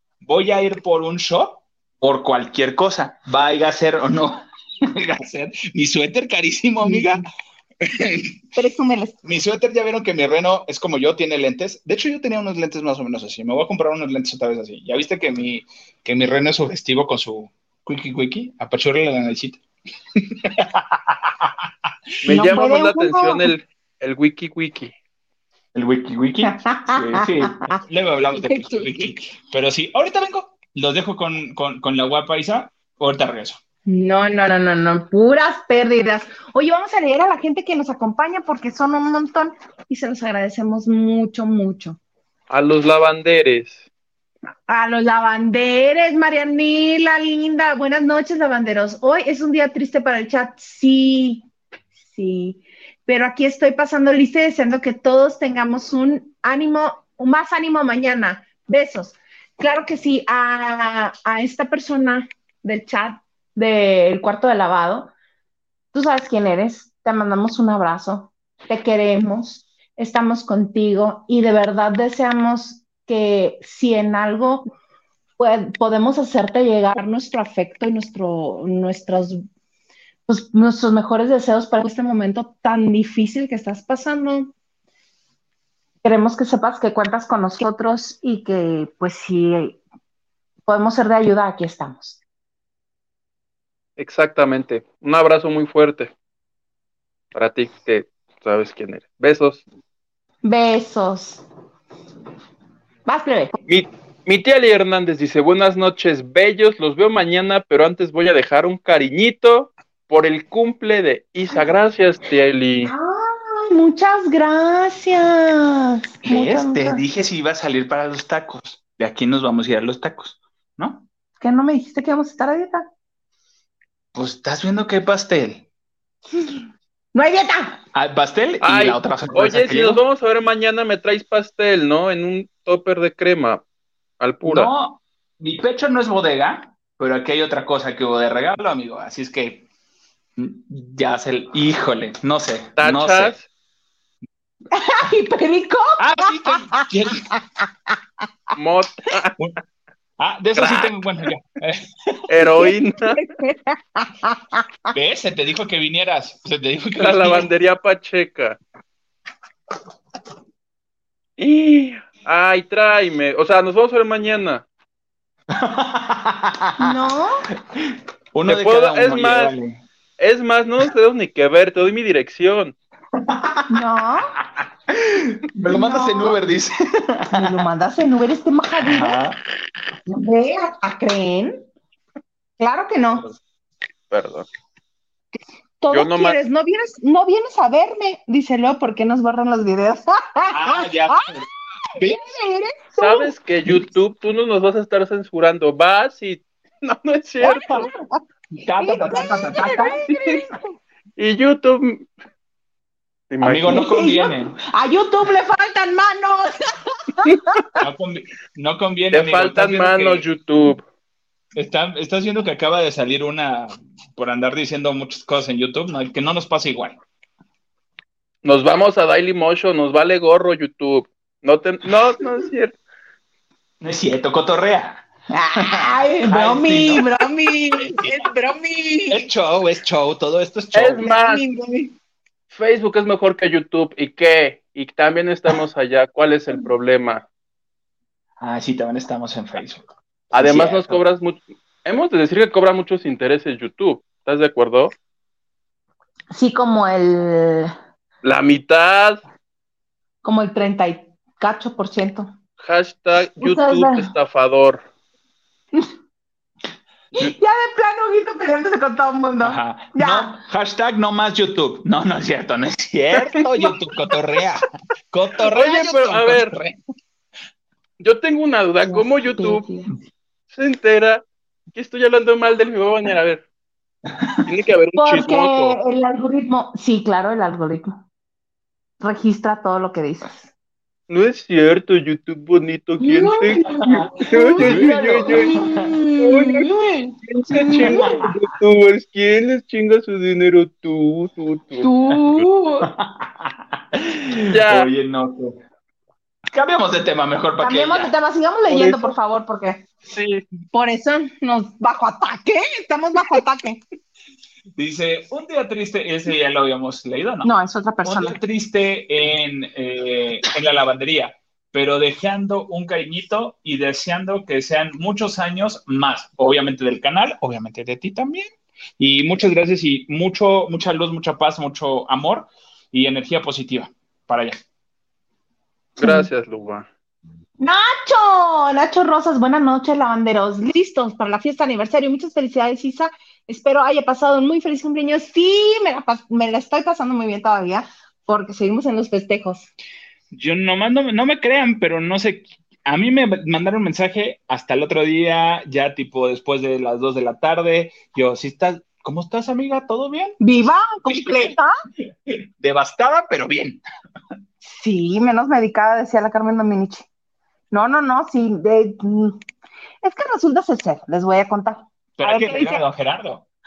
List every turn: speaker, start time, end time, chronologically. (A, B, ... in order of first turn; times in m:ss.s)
0:00.2-0:07.2 A
0:06.8-0:07.2 B
0:07.8-0:08.4 A
0:08.6-0:09.2 B
0:09.2-0:19.6 A
0:20.2-0:21.7 A
0:22.2-0:24.9 C
0:22.3-0:23.5 B
0:25.7-0:33.6 A
0:26.4-0:27.8 B
0:28.4-0:28.9 B
0:33.9-0:42.0 B
0:42.5-0:43.8 C
0:44.7-0:51.5 B
0:52.0-1:05.1 B
1:05.9-1:14.7 B
1:15.4-1:19.4 B
1:20.3-1:24.5 B
1:26.0-1:29.8 B
1:30.7-1:32.2 B
1:34.0-1:36.1 C
1:37.3-1:39.6 C
1:40.4-1:41.4 B
1:43.1-1:43.6 B
1:43.7-1:52.9 C
1:52.8-1:57.0 B
1:56.2-2:01.0 A
2:01.4-2:02.9 B
2:04.1-2:05.6 A
2:07.1-2:07.8 B
2:07.9-2:10.0 A
2:08.6-2:13.6 C
2:14.2-2:14.7 C
2:14.4-2:19.7 A
2:20.4-2:23.4 A
2:22.8-2:23.5 C
2:24.7-2:27.9 B
2:26.0-2:27.2 A
2:28.6-2:29.4 C
2:30.2-2:32.4 A
2:30.6-2:30.9 C
2:32.3-2:33.2 C
2:32.5-2:34.6 B
2:34.9-2:37.5 A
2:37.0-2:38.6 C
2:41.4-2:44.6 C
2:45.5-2:46.9 A
2:46.8-2:47.4 B
2:47.7-2:49.8 A
2:48.5-2:49.5 C
2:50.2-2:52.8 C
2:53.2-2:53.8 A
2:53.7-2:54.3 B
2:54.9-2:57.6 A
2:55.7-2:56.4 B
2:57.3-2:59.2 B
2:58.8-2:59.4 A
3:00.1-3:01.6 B
3:02.6-3:03.3 B
3:04.1-3:04.5 C
3:05.8-3:11.3 B
3:05.9-3:06.4 C
3:10.5-3:12.2 A
3:11.9-3:13.3 B
3:13.0-3:17.9 C
3:17.4-3:18.0 B
3:18.6-3:20.0 A
3:18.8-3:20.8 B
3:20.1-3:20.4 C
3:21.2-3:22.1 C
3:23.3-3:23.8 C
3:23.4-3:24.6 A
3:23.7-3:27.6 B
3:27.8-3:30.3 A
3:29.1-3:30.8 C
3:31.6-3:37.0 A
3:38.4-3:42.8 C
3:43.8-3:45.0 A
3:45.3-3:49.2 B
3:45.6-3:47.1 A
3:47.8-3:48.2 A
3:49.1-3:51.0 A
3:50.7-3:51.4 C
3:51.0-3:52.0 B
3:52.5-3:57.2 C
3:58.4-4:01.0 A
4:00.3-4:04.9 C
4:06.3-4:07.7 B
4:08.2-4:09.2 C
4:10.2-4:12.3 B
4:12.6-4:14.9 C
4:13.4-4:14.1 B
4:17.1-4:20.4 B
4:19.4-4:26.8 A
4:25.5-4:26.6 C
4:28.0-4:29.6 C
4:28.8-4:29.9 B
4:30.5-4:33.4 C
4:34.1-4:34.4 A
4:34.4-4:35.8 C
4:35.0-4:38.0 B
4:39.0-4:40.5 B
4:41.1-4:45.6 C
4:43.0-4:48.3 B
4:43.9-4:46.0 A
4:46.2-4:46.7 C
4:47.3-4:51.9 C
4:47.8-4:48.4 A
4:51.8-4:52.9 B
4:52.8-4:55.6 A
4:54.5-4:54.9 C
4:56.5-4:58.1 A
4:57.6-4:59.8 B
4:58.7-4:59.1 C
5:00.1-5:00.4 C
5:00.7-5:03.8 B
5:04.8-5:07.5 A
5:07.4-5:08.4 B
5:08.0-5:24.6 A
5:26.0-5:26.9 C
5:26.0-5:26.3 B
5:27.6-5:39.7 B
5:40.3-5:50.4 A
5:50.4-5:51.7 B
5:51.1-5:51.6 A
5:52.3-5:53.8 A
5:54.6-5:57.1 B
5:57.7-5:59.4 B
6:00.0-6:02.8 B
6:02.2-6:03.4 A